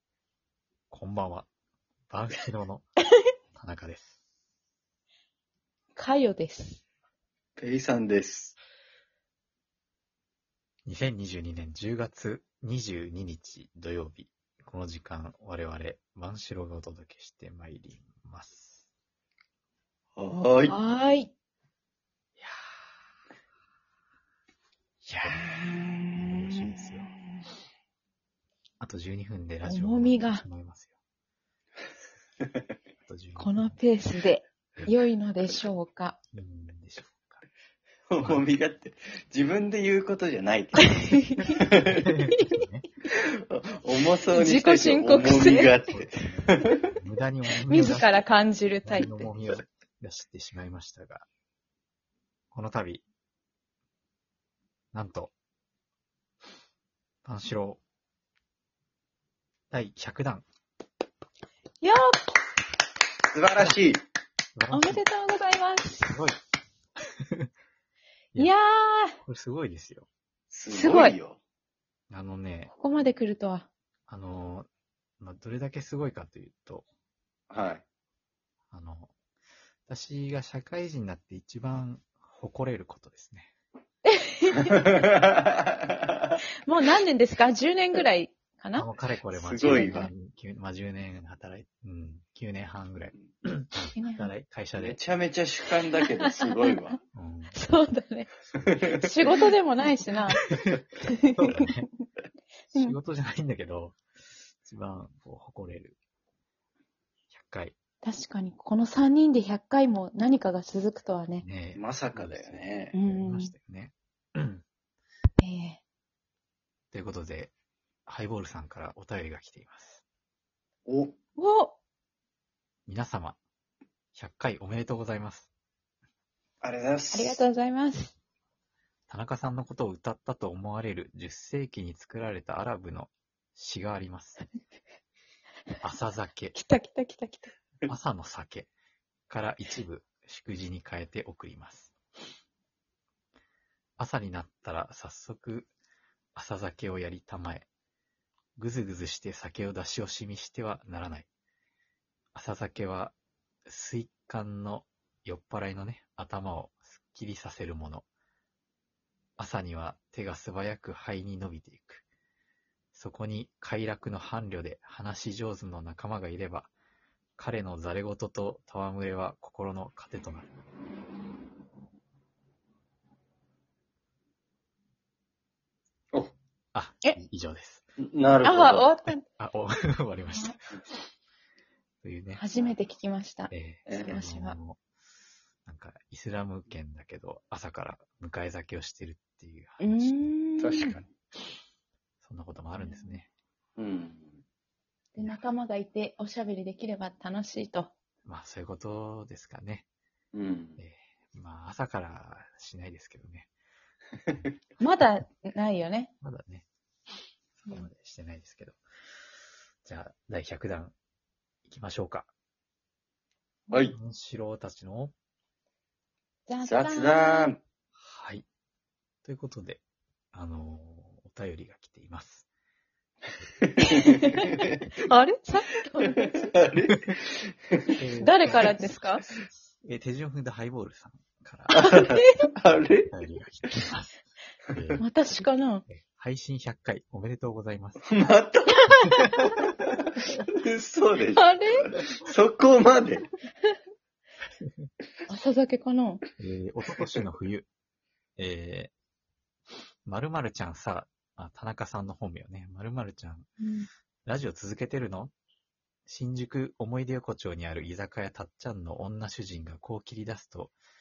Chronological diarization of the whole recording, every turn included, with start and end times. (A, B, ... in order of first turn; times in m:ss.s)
0:00.9-0:01.5 A
0:02.1-0:02.9 A
0:03.5-0:04.2 A
0:06.0-0:06.8 B
0:07.6-0:08.6 C
0:10.9-0:18.9 A
0:20.2-0:20.8 C
0:20.7-0:21.3 B
0:25.1-0:25.5 A
0:25.2-0:27.2 B
0:26.2-0:27.1 A
0:28.8-0:30.9 A
0:29.6-0:30.4 B
0:33.0-0:33.8 A
0:33.4-0:36.2 B
0:36.3-0:37.4 A
0:38.1-0:41.0 C
0:38.2-0:38.4 A
0:40.8-0:41.6 B
0:41.6-0:42.1 C
0:41.9-0:42.8 A
0:42.3-0:42.6 B
0:43.2-0:46.8 C
0:44.3-0:45.8 B
0:45.9-0:48.1 A
0:47.7-0:49.3 B
0:48.8-0:51.3 A
0:52.5-0:53.0 A
0:54.9-0:55.3 A
0:57.2-0:57.8 A
0:59.7-1:00.4 A
1:01.8-1:02.3 B
1:03.3-1:04.0 C
1:04.6-1:05.0 A
1:04.7-1:06.2 B
1:06.1-1:06.4 A
1:08.4-1:09.2 B
1:09.2-1:10.1 A
1:10.5-1:11.4 C
1:10.7-1:11.2 B
1:12.1-1:12.7 A
1:12.7-1:13.7 B
1:14.1-1:14.7 A
1:15.2-1:16.9 A
1:17.5-1:17.8 C
1:18.7-1:19.1 A
1:19.9-1:23.5 A
1:24.1-1:24.8 B
1:24.6-1:26.4 C
1:26.6-1:28.9 B
1:28.8-1:35.0 A
1:29.3-1:30.1 C
1:29.6-1:30.1 B
1:34.0-1:34.3 B
1:34.8-1:37.0 C
1:36.0-1:36.8 B
1:37.1-1:37.6 A
1:37.5-1:38.3 B
1:38.6-1:39.1 C
1:39.0-1:40.4 B
1:41.0-1:41.7 B
1:41.3-1:41.9 A
1:42.7-1:44.0 A
1:44.6-1:46.0 A
1:47.3-1:47.8 A
1:48.0-1:51.5 B
1:51.4-1:54.6 A
1:51.8-1:53.0 C
1:52.9-1:53.5 B
1:55.4-1:55.8 B
1:56.9-1:57.5 A
1:58.1-2:00.0 A
2:00.9-2:01.2 C
2:01.4-2:01.8 B
2:02.9-2:03.4 A
2:04.1-2:05.5 A
2:06.6-2:07.4 C
2:07.1-2:08.1 B
2:09.1-2:14.4 A
2:15.8-2:16.6 A
2:16.5-2:17.5 B
2:17.9-2:18.7 A
2:19.3-2:22.0 A
2:24.0-2:25.7 A
2:26.4-2:27.7 A
2:28.6-2:31.3 A
2:32.3-2:38.1 A
2:39.4-2:42.0 A
2:42.9-2:46.7 A
2:47.4-2:50.6 A
2:56.7-2:57.9 A
2:58.0-2:58.9 C
2:58.4-2:59.2 B
2:59.1-3:00.6 A
3:02.0-3:02.4 A
3:02.3-3:04.6 B
3:03.5-3:04.8 A
3:03.9-3:04.1 C
3:05.6-3:11.0 A
3:09.8-3:11.0 B
3:10.6-3:11.1 C
3:12.2-3:13.3 A
3:12.8-3:13.2 B
3:13.8-3:14.4 C
3:15.1-3:17.9 B
3:18.2-3:19.9 A
3:20.3-3:20.8 C
3:20.8-3:23.5 A
3:24.8-3:26.1 B
3:26.2-3:26.7 A
3:27.6-3:28.8 A
3:29.8-3:31.0 A
3:31.6-3:32.3 A
3:33.9-3:35.1 A
3:36.5-3:37.5 B
3:36.6-3:37.6 C
3:38.0-3:38.5 A
3:39.2-3:39.8 A
3:40.3-3:42.5 A
3:43.6-3:44.7 C
3:43.9-3:46.5 B
3:46.5-3:48.0 C
3:48.0-3:48.9 A
3:48.2-3:49.2 B
3:49.8-3:51.8 A
3:51.7-3:52.5 B
3:51.8-3:53.1 C
3:53.1-3:54.2 A
3:54.7-3:55.1 A
3:54.7-3:55.0 C
3:55.0-3:55.8 B
3:55.9-3:58.0 A
3:58.0-3:58.9 C
3:58.9-3:59.5 B
4:00.6-4:03.2 C
4:01.4-4:01.9 B
4:05.3-4:06.2 B
4:06.4-4:07.7 A
4:08.4-4:08.9 A
4:10.1-4:13.5 A
4:13.6-4:13.9 B
4:14.3-4:15.3 A
4:16.1-4:20.8 A